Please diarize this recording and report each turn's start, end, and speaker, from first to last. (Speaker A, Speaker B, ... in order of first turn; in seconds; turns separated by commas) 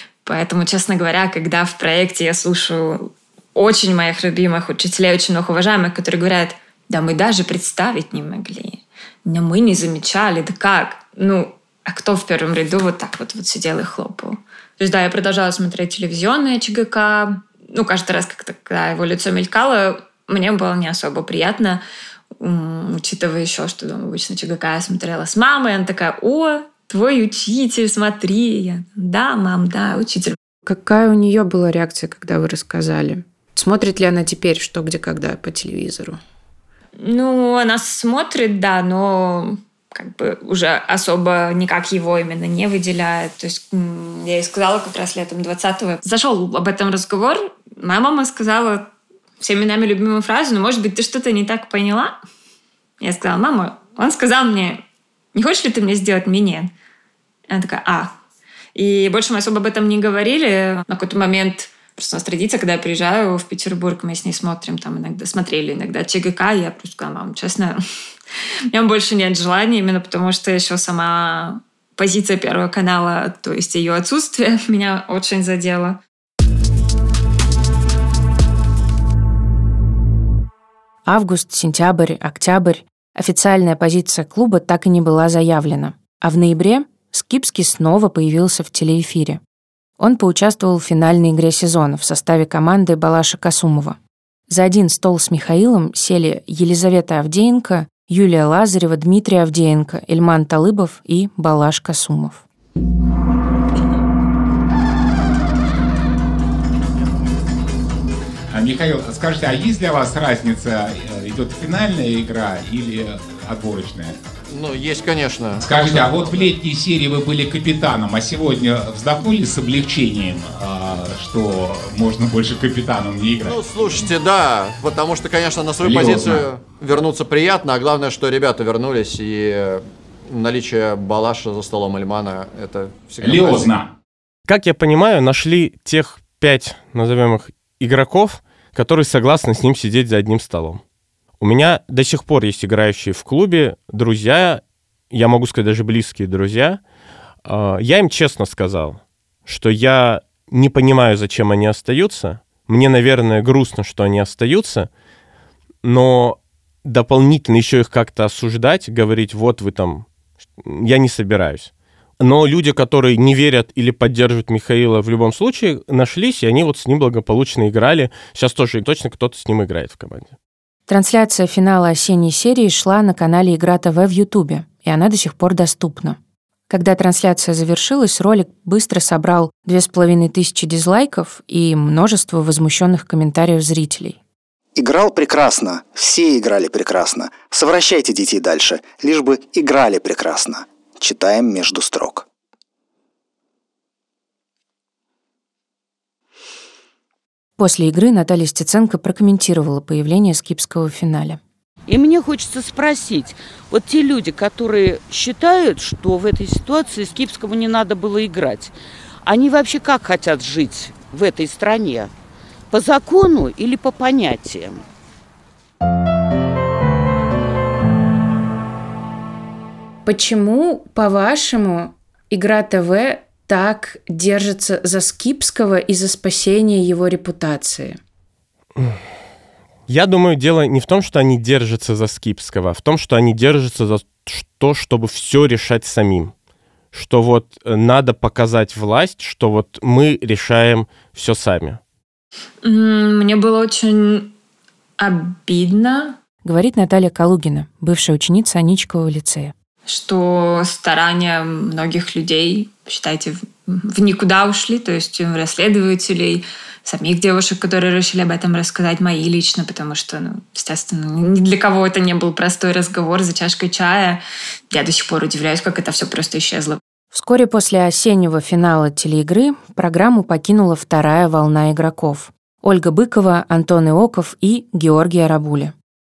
Speaker A: 0.2-21.8, Speaker A: 22.4-30.4, Speaker B: 30.7-36.2, Speaker A: 37.0-52.2, Speaker A: 53.0-56.7, Speaker A: 57.5-58.2, Speaker A: 58.8-67.8, Speaker A: 68.7-76.0, Speaker B: 81.0-89.4, Speaker B: 90.0-94.0, Speaker B: 94.5-102.5, Speaker C: 108.5-114.2, Speaker D: 114.5-116.5, Speaker C: 115.6-124.0, Speaker D: 123.5-133.8, Speaker C: 125.8-126.5, Speaker C: 133.2-133.9, Speaker E: 134.5-140.8, Speaker E: 141.4-146.8, Speaker E: 147.4-154.9, Speaker E: 155.8-160.1, Speaker E: 160.6-170.3, Speaker B: 170.9-176.2, Speaker B: 176.7-184.2, Speaker F: 184.8-192.3, Speaker B: 197.6-201.4, Speaker G: 201.9-208.7, Speaker G: 209.2-212.1, Speaker G: 212.7-214.8, Speaker B: 220.1-228.0, Speaker E: 229.9-236.3, Speaker E: 236.9-241.8, Speaker A: 242.6-244.3, Speaker A: 245.0-246.2, Speaker B: 246.4-249.5, Speaker A: 249.9-266.8, Speaker B: 267.1-275.7